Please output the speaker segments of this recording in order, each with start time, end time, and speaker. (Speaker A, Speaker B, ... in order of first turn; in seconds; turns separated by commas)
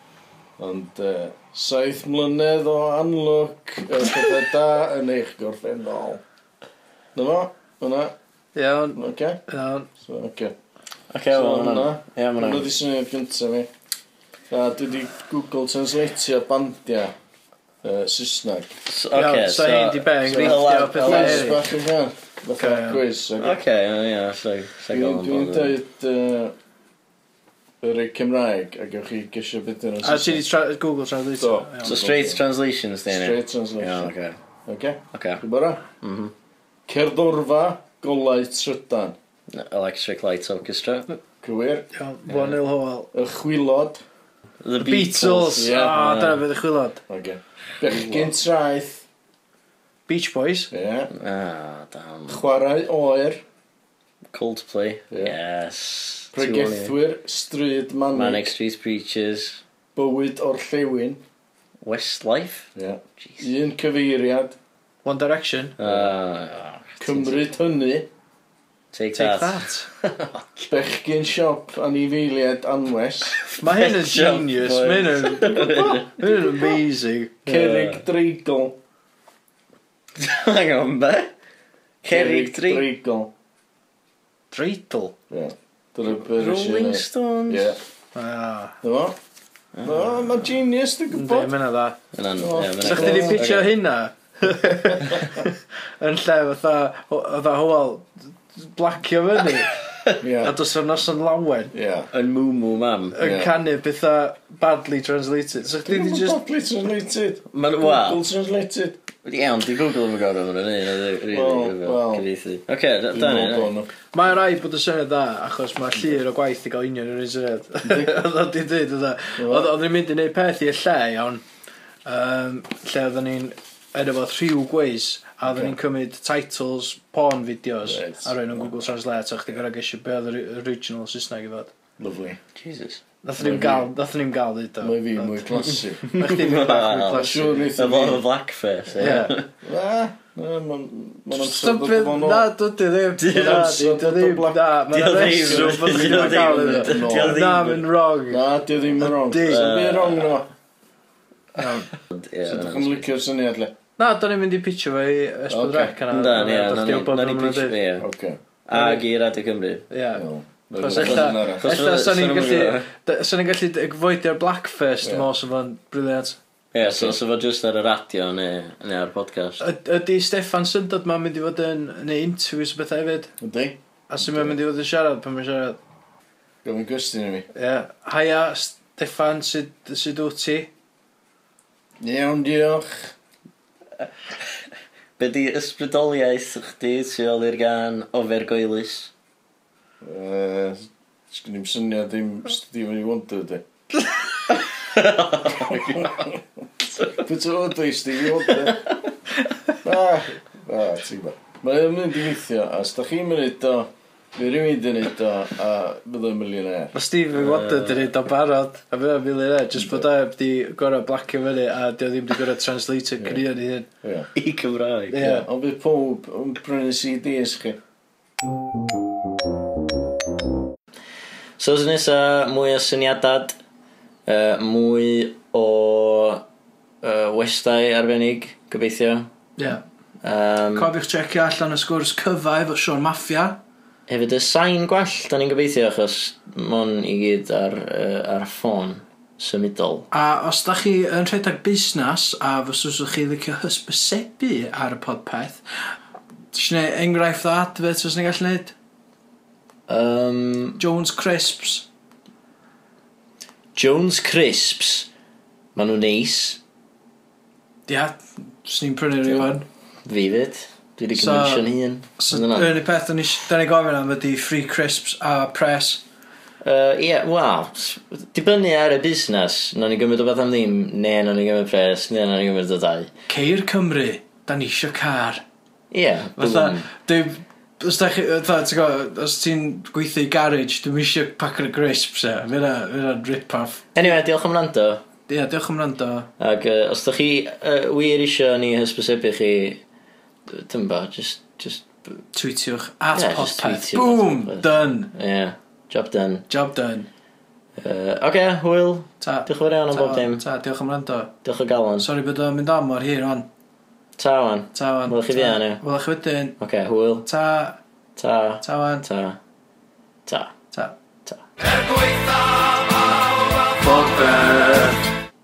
Speaker A: 0.6-6.2, Speaker A: 7.1-8.1, Speaker B: 8.5-9.9, Speaker A: 8.9-9.4, Speaker A: 10.0-10.5, Speaker C: 11.1-12.7, Speaker A: 11.3-13.7, Speaker A: 14.5-17.1, Speaker A: 17.8-18.8, Speaker C: 18.9-21.6, Speaker B: 19.1-21.6, Speaker A: 20.2-23.6, Speaker B: 22.6-23.0, Speaker C: 23.4-25.8, Speaker A: 24.9-26.5, Speaker A: 27.8-30.4, Speaker B: 30.0-31.9, Speaker A: 31.4-32.4, Speaker C: 31.8-34.4, Speaker A: 33.1-34.1, Speaker A: 34.6-35.8, Speaker C: 35.1-35.4, Speaker C: 36.0-36.3, Speaker A: 36.9-39.2, Speaker C: 39.5-41.1, Speaker A: 41.4-42.6, Speaker B: 41.9-43.1, Speaker A: 43.1-44.0, Speaker C: 44.6-46.4, Speaker B: 44.8-47.0, Speaker A: 45.6-46.2, Speaker A: 47.1-49.0, Speaker C: 47.8-48.3, Speaker B: 50.1-50.7, Speaker A: 50.7-51.1, Speaker C: 51.1-52.4, Speaker A: 52.3-53.4, Speaker C: 54.3-57.0, Speaker A: 56.3-58.5, Speaker C: 58.1-59.6, Speaker A: 60.0-61.2, Speaker C: 61.8-63.5, Speaker A: 62.8-64.6, Speaker B: 65.0-65.7, Speaker C: 65.8-67.4, Speaker A: 65.8-66.1, Speaker A: 67.0-68.1, Speaker C: 68.9-70.7, Speaker B: 69.1-69.9, Speaker A: 70.7-73.4, Speaker B: 73.5-77.4, Speaker C: 73.5-76.4, Speaker C: 77.5-78.0, Speaker A: 77.5-78.8, Speaker C: 80.2-81.3, Speaker C: 82.0-82.9, Speaker A: 82.0-83.3, Speaker B: 84.5-85.1, Speaker A: 85.3-87.8, Speaker C: 86.1-87.8, Speaker B: 88.1-88.8, Speaker A: 88.8-89.2, Speaker C: 89.8-90.5, Speaker A: 89.8-91.5, Speaker B: 91.1-92.0, Speaker C: 92.1-93.7, Speaker A: 92.4-93.4, Speaker B: 92.8-99.7, Speaker A: 100.2-100.6, Speaker B: 100.4-101.7, Speaker A: 101.7-102.1, Speaker C: 102.1-103.2, Speaker B: 103.1-106.4, Speaker A: 103.2-103.5, Speaker A: 105.8-109.0, Speaker C: 107.5-108.2, Speaker C: 109.2-113.7, Speaker A: 111.3-112.2, Speaker A: 113.1-113.9, Speaker B: 114.1-121.4, Speaker A: 117.8-118.2, Speaker A: 119.4-119.7, Speaker B: 122.0-131.7, Speaker A: 125.5-125.7, Speaker A: 127.8-128.8, Speaker A: 132.0-132.4, Speaker C: 132.5-133.0, Speaker B: 133.2-135.6, Speaker A: 133.4-133.9, Speaker A: 134.8-136.1, Speaker B: 136.1-137.7, Speaker C: 136.1-139.4, Speaker A: 137.2-138.2, Speaker B: 139.0-139.3, Speaker A: 139.6-142.5, Speaker B: 141.3-148.4, Speaker C: 143.2-143.7, Speaker A: 143.2-147.4, Speaker C: 144.9-147.8, Speaker A: 148.3-150.5, Speaker B: 149.0-149.7, Speaker C: 149.4-150.4, Speaker B: 151.6-151.9, Speaker C: 152.0-153.1, Speaker A: 152.4-153.7, Speaker B: 154.0-157.7, Speaker A: 155.5-156.0, Speaker C: 156.1-158.1, Speaker A: 158.0-158.4, Speaker C: 158.7-159.9, Speaker B: 159.9-166.4, Speaker A: 160.1-161.7, Speaker C: 160.9-162.9, Speaker A: 165.0-165.3, Speaker C: 166.7-169.6, Speaker A: 166.8-167.2, Speaker B: 169.6-173.3, Speaker A: 173.4-174.6, Speaker B: 174.1-175.8, Speaker A: 176.6-177.5, Speaker B: 177.5-180.7, Speaker A: 182.0-183.1, Speaker C: 185.2-189.1, Speaker A: 190.0-193.6, Speaker C: 194.8-196.1, Speaker A: 195.5-196.4, Speaker A: 197.0-198.9, Speaker C: 198.4-199.0, Speaker A: 199.8-206.9, Speaker B: 206.9-213.9, Speaker C: 207.3-208.1, Speaker A: 209.8-210.1, Speaker A: 214.0-214.3, Speaker C: 214.3-215.3, Speaker B: 215.1-215.4, Speaker A: 215.2-217.8, Speaker C: 221.6-223.6, Speaker C: 224.3-226.4, Speaker C: 227.0-229.3, Speaker B: 229.6-229.8, Speaker C: 230.2-230.9, Speaker B: 230.7-233.6, Speaker C: 234.1-240.1, Speaker B: 240.1-245.6, Speaker B: 246.5-248.7, Speaker C: 249.9-250.8, Speaker B: 250.8-251.8, Speaker C: 253.7-255.1, Speaker C: 255.7-256.6, Speaker B: 257.9-259.6, Speaker C: 260.1-262.8, Speaker B: 261.1-261.6, Speaker B: 262.2-266.0, Speaker C: 266.6-273.1, Speaker B: 273.3-275.4, Speaker C: 275.9-276.9, Speaker B: 276.4-284.1, Speaker C: 283.9-285.0, Speaker B: 285.3-286.3, Speaker C: 286.4-289.8, Speaker C: 290.5-292.2, Speaker B: 292.3-295.1, Speaker C: 293.1-296.4, Speaker B: 296.5-297.1, Speaker C: 297.8-300.4, Speaker B: 299.2-301.3, Speaker C: 301.4-302.1, Speaker B: 302.0-303.5, Speaker C: 304.2-305.8, Speaker B: 304.7-306.6, Speaker C: 306.6-307.3, Speaker B: 307.2-307.8, Speaker C: 308.1-309.4, Speaker B: 308.6-309.0, Speaker C: 310.3-310.6, Speaker C: 313.8-315.1